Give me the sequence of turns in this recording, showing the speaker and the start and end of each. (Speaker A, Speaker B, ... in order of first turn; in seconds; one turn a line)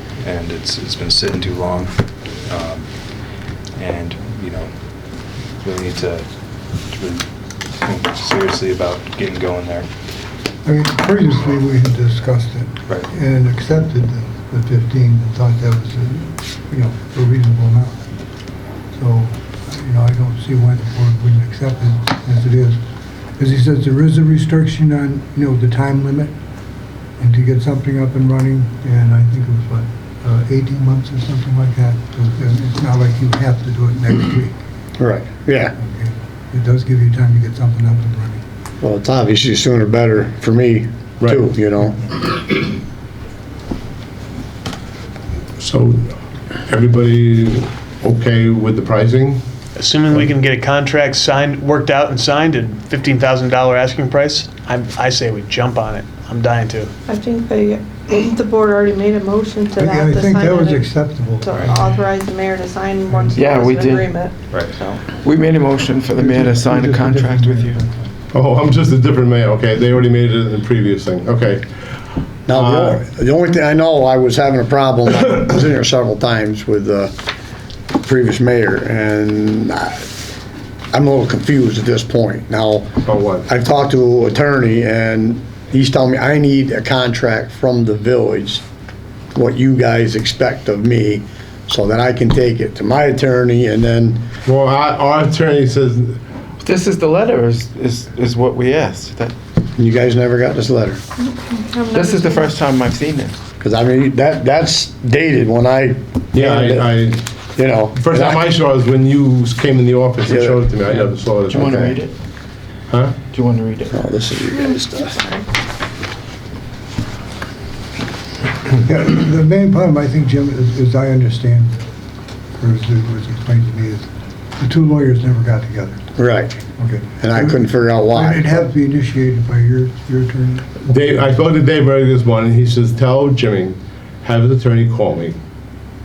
Speaker A: 0.2-3.2
Speaker A: 3.8-9.9
Speaker B: 10.6-18.0
Speaker B: 18.9-22.8
Speaker B: 23.4-26.3
Speaker B: 27.2-34.5
Speaker C: 35.0-35.7
Speaker B: 35.8-38.4
Speaker C: 38.8-42.5
Speaker D: 41.2-41.5
Speaker D: 45.6-46.1
Speaker D: 46.7-49.4
Speaker E: 49.8-56.9
Speaker F: 57.0-65.0
Speaker B: 59.8-61.8
Speaker G: 63.3-64.2
Speaker A: 64.5-64.7
Speaker G: 65.1-67.8
Speaker B: 66.1-68.1
Speaker D: 68.3-71.7
Speaker C: 72.5-77.1
Speaker D: 72.5-73.0
Speaker C: 78.0-80.0
Speaker C: 80.9-82.9
Speaker D: 83.1-83.5
Speaker C: 83.5-88.6
Speaker C: 89.3-94.2
Speaker D: 94.4-96.2
Speaker G: 96.6-99.3
Speaker C: 99.8-101.0
Speaker F: 101.2-102.5
Speaker G: 101.9-103.4
Speaker C: 103.6-106.9
Speaker D: 106.3-107.2
Speaker C: 107.5-108.5
Speaker D: 107.9-111.9
Speaker C: 110.3-110.7
Speaker G: 110.8-112.1
Speaker D: 112.9-113.2
Speaker G: 113.3-114.0
Speaker C: 113.9-115.2
Speaker F: 114.5-115.4
Speaker B: 118.8-121.8
Speaker B: 122.6-124.1
Speaker B: 124.6-126.0
Speaker C: 126.2-126.6
Speaker B: 126.8-131.1
Speaker C: 127.2-128.6
Speaker D: 130.8-135.3